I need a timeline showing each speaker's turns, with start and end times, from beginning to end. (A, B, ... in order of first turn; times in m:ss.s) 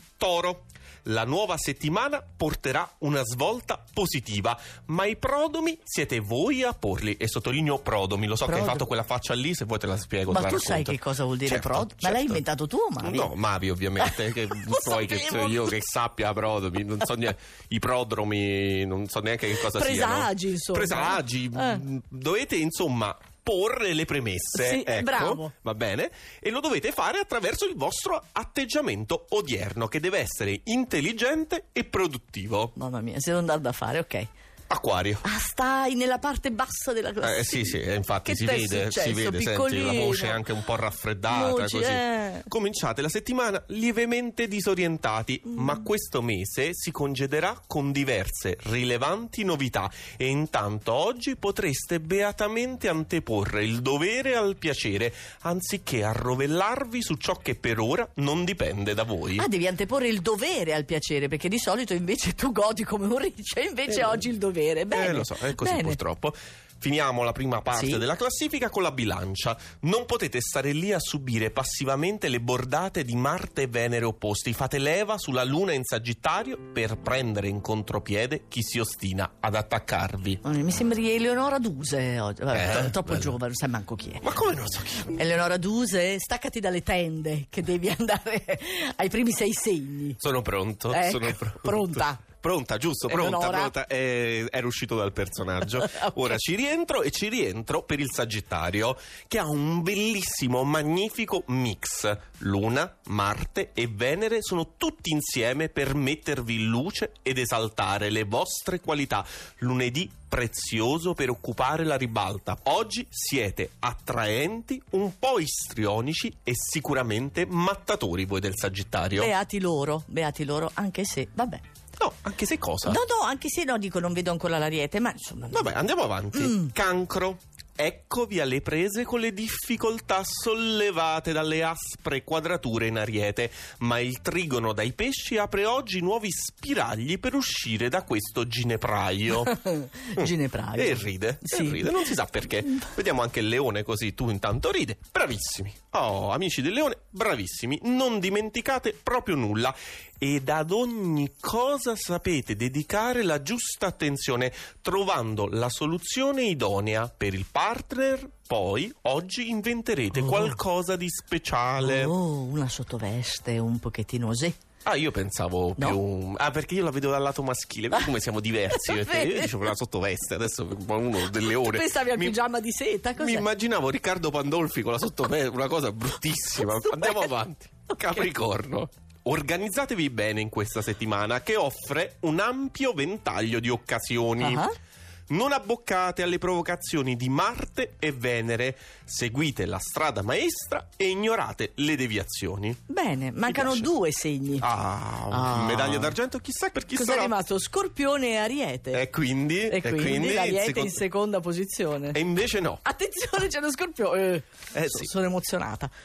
0:00.2-0:12.4 A
0:08.4-0:08.8 B
0:10.3-0:13.3 B
0:13.0-0:32.7 A
0:14.0-0:15.7 B
0:19.6-0:21.8 B
0:24.5-0:25.5 B
0:32.8-0:34.3 B
0:34.7-0:35.2 A
0:35.2-0:40.4 B
0:37.2-0:59.5 A
0:41.3-0:42.5 B
0:45.5-0:45.8 B
0:59.4-1:06.0 B
1:04.9-1:20.4 A
1:07.7-1:08.0 B
1:20.4-1:24.3 B
1:22.5-1:23.3 A
1:24.2-1:25.2 A
1:25.1-1:30.2 B
1:30.2-1:59.3 A
1:30.9-1:32.2 B
1:33.1-1:33.7 B
1:59.2-2:01.6 B
2:02.0-2:03.0 A
2:02.8-2:05.8 B
2:05.5-2:19.5 A
2:06.3-2:06.7 B
2:19.4-2:22.0 B
2:20.1-2:42.1 A
2:40.2-2:40.6 B
2:41.8-2:44.6 B
2:44.8-2:52.4 A
2:48.7-2:49.5 B
2:51.4-2:53.4 B
2:53.2-3:04.7 A
2:56.8-2:57.3 B
3:04.4-3:04.7 B
3:05.3-3:12.8 A
3:12.9-3:14.7 B
3:13.5-3:13.9 A
3:14.6-3:17.3 A
3:15.3-3:16.1 B
3:16.9-3:19.0 B
3:18.9-3:21.0 A
3:19.7-3:22.2 B
3:22.1-3:22.8 A
3:22.8-3:25.9 B
3:24.7-3:25.1 A